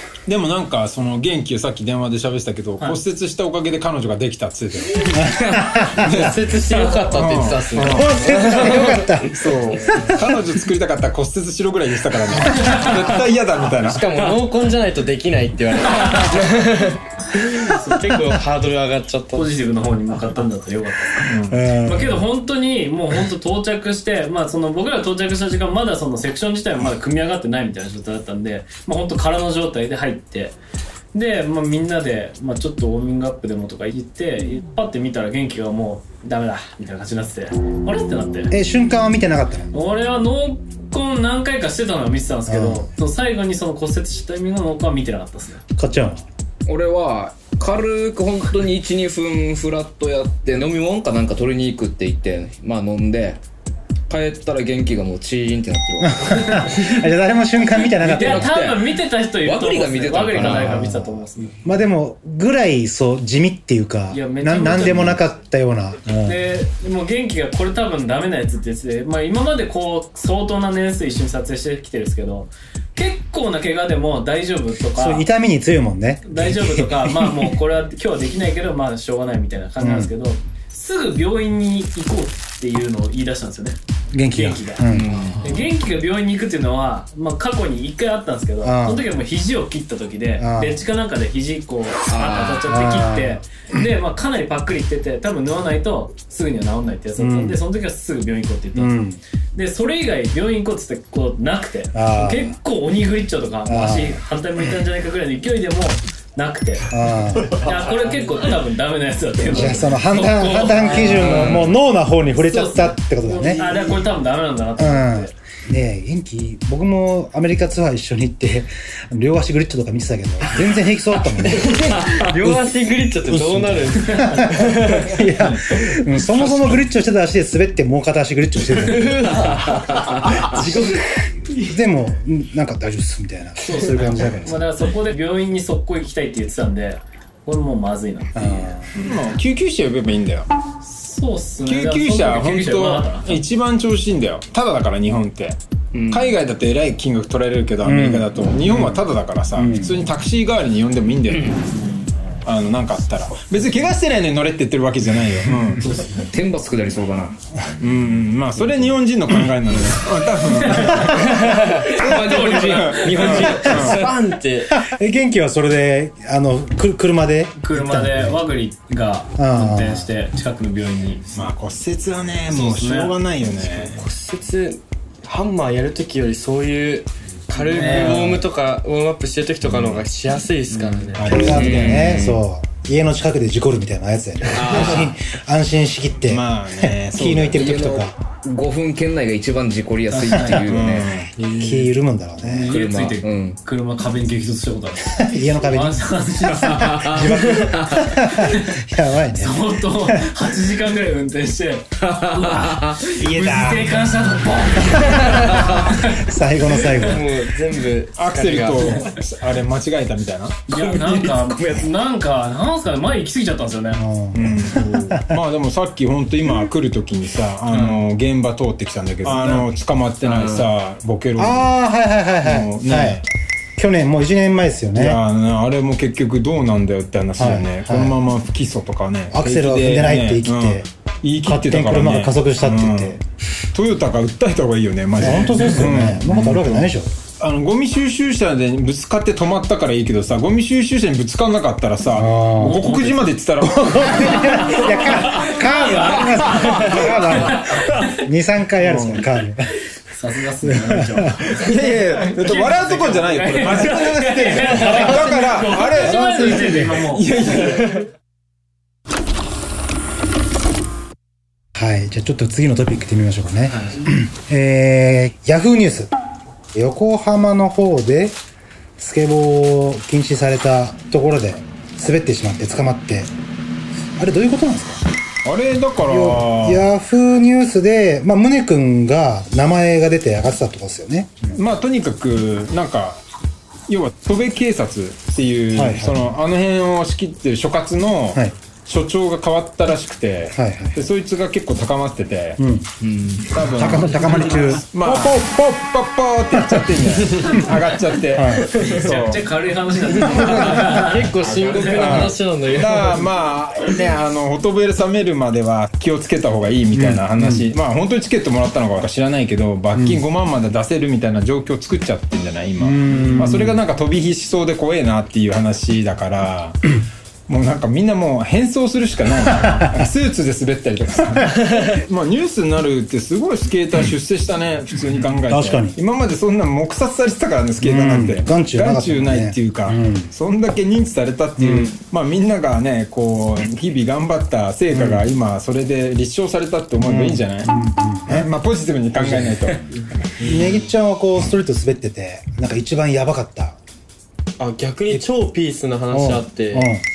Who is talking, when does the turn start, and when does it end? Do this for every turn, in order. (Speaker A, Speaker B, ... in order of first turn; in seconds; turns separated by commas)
Speaker A: 0.2-14.4, Speaker B: 5.2-6.3, Speaker C: 6.0-9.6, Speaker B: 7.8-10.2, Speaker D: 12.5-12.8, Speaker C: 13.8-19.5, Speaker D: 17.7-18.1, Speaker D: 19.3-30.5, Speaker A: 21.2-21.6, Speaker B: 21.5-22.2, Speaker D: 31.1-38.5, Speaker B: 38.5-39.7, Speaker D: 39.7-45.6, Speaker B: 42.5-42.9, Speaker B: 45.8-46.2, Speaker E: 46.6-53.4, Speaker E: 54.1-56.8, Speaker B: 56.0-58.5, Speaker E: 58.0-58.9, Speaker D: 58.0-61.5, Speaker E: 59.4-60.8, Speaker B: 60.4-66.4, Speaker D: 64.1-65.2, Speaker D: 66.2-75.3, Speaker B: 74.9-77.3, Speaker D: 76.2-83.8, Speaker B: 79.8-80.1, Speaker B: 84.1-85.2, Speaker D: 84.3-84.8, Speaker E: 84.9-85.7, Speaker D: 85.4-99.0, Speaker B: 88.6-89.0, Speaker B: 90.4-90.8, Speaker E: 92.0-92.7, Speaker B: 92.7-93.4, Speaker B: 97.2-97.6, Speaker B: 98.7-99.2, Speaker D: 99.5-111.7, Speaker B: 101.9-102.5, Speaker B: 103.6-104.2, Speaker B: 106.9-107.6, Speaker B: 109.5-113.7, Speaker E: 111.1-111.7, Speaker D: 112.3-115.3, Speaker C: 113.4-114.0, Speaker B: 114.8-122.8, Speaker C: 121.4-125.4, Speaker B: 123.3-129.6, Speaker C: 128.8-131.0, Speaker B: 130.6-130.9, Speaker B: 131.5-134.6, Speaker D: 133.6-138.3, Speaker B: 138.3-138.9, Speaker A: 138.9-140.5, Speaker D: 140.8-143.3, Speaker A: 141.6-145.6, Speaker E: 145.9-146.3, Speaker A: 146.1-151.6, Speaker B: 147.8-148.9, Speaker B: 149.6-149.9, Speaker E: 151.3-151.6, Speaker D: 151.7-152.1, Speaker A: 152.4-155.8, Speaker D: 155.8-156.2, Speaker E: 156.1-157.5, Speaker A: 157.8-164.1, Speaker E: 158.6-158.9, Speaker D: 160.6-163.5, Speaker C: 161.3-161.8, Speaker E: 161.3-164.1, Speaker C: 163.2-164.8, Speaker B: 164.7-168.4, Speaker D: 167.6-171.2, Speaker B: 169.4-170.1, Speaker A: 171.3-174.0, Speaker D: 172.5-173.1, Speaker C: 173.6-181.6, Speaker A: 177.7-178.4, Speaker A: 181.2-182.2, Speaker B: 181.2-188.1, Speaker E: 181.5-182.4, Speaker E: 184.5-185.1, Speaker A: 186.3-187.6, Speaker E: 187.6-191.2, Speaker D: 190.1-190.6, Speaker A: 190.6-191.3, Speaker B: 191.6-192.7, Speaker E: 192.4-193.6, Speaker D: 192.7-198.8, Speaker B: 195.3-200.2, Speaker E: 196.8-197.3, Speaker D: 199.4-206.2, Speaker E: 202.1-203.0, Speaker A: 203.2-204.0, Speaker B: 205.2-207.2, Speaker C: 207.0-209.2, Speaker A: 208.2-211.3, Speaker D: 210.7-214.0, Speaker B: 214.0-215.2, Speaker A: 214.3-221.7, Speaker E: 217.7-218.0, Speaker E: 220.2-220.7, Speaker B: 221.4-223.2, Speaker A: 222.4-223.2, Speaker B: 223.8-225.2, Speaker A: 224.9-233.2, Speaker B: 227.4-228.2, Speaker B: 229.3-230.8, Speaker B: 231.4-233.2, Speaker A: 233.7-236.9, Speaker B: 235.2-237.1, Speaker A: 237.4-244.7, Speaker B: 242.1-242.8, Speaker D: 242.6-243.3, Speaker B: 243.6-249.7, Speaker D: 244.1-248.2, Speaker A: 246.8-247.4, Speaker A: 248.8-249.2, Speaker D: 250.1-257.2, Speaker B: 250.7-251.2, Speaker A: 251.6-258.1, Speaker B: 254.6-257.0, Speaker B: 261.7-266.1, Speaker D: 263.7-264.0, Speaker B: 266.7-268.4, Speaker B: 269.0-273.3, Speaker B: 274.1-275.0, Speaker A: 275.4-276.8, Speaker B: 276.0-281.6, Speaker A: 281.5-283.2, Speaker A: 283.9-292.6, Speaker B: 285.7-286.2, Speaker B: 290.5-291.0, Speaker B: 292.6-292.9, Speaker E: 293.0-293.8, Speaker A: 293.4-299.4, Speaker B: 293.8-294.8, Speaker B: 296.6-297.5, Speaker B: 298.3-298.7, Speaker D: 298.8-302.2, Speaker C: 298.8-299.1, Speaker C: 300.1-303.3, Speaker A: 301.5-317.0, Speaker B: 306.9-307.6, Speaker B: 312.8-313.8, Speaker A: 317.5-337.7, Speaker B: 325.5-326.0, Speaker B: 327.8-330.3, Speaker B: 331.6-331.9, Speaker B: 334.9-335.2, Speaker B: 337.0-338.5, Speaker A: 338.3-340.0, Speaker B: 339.1-339.8, Speaker C: 340.4-340.7, Speaker B: 340.4-343.8, Speaker C: 344.6-346.9, Speaker B: 346.1-347.0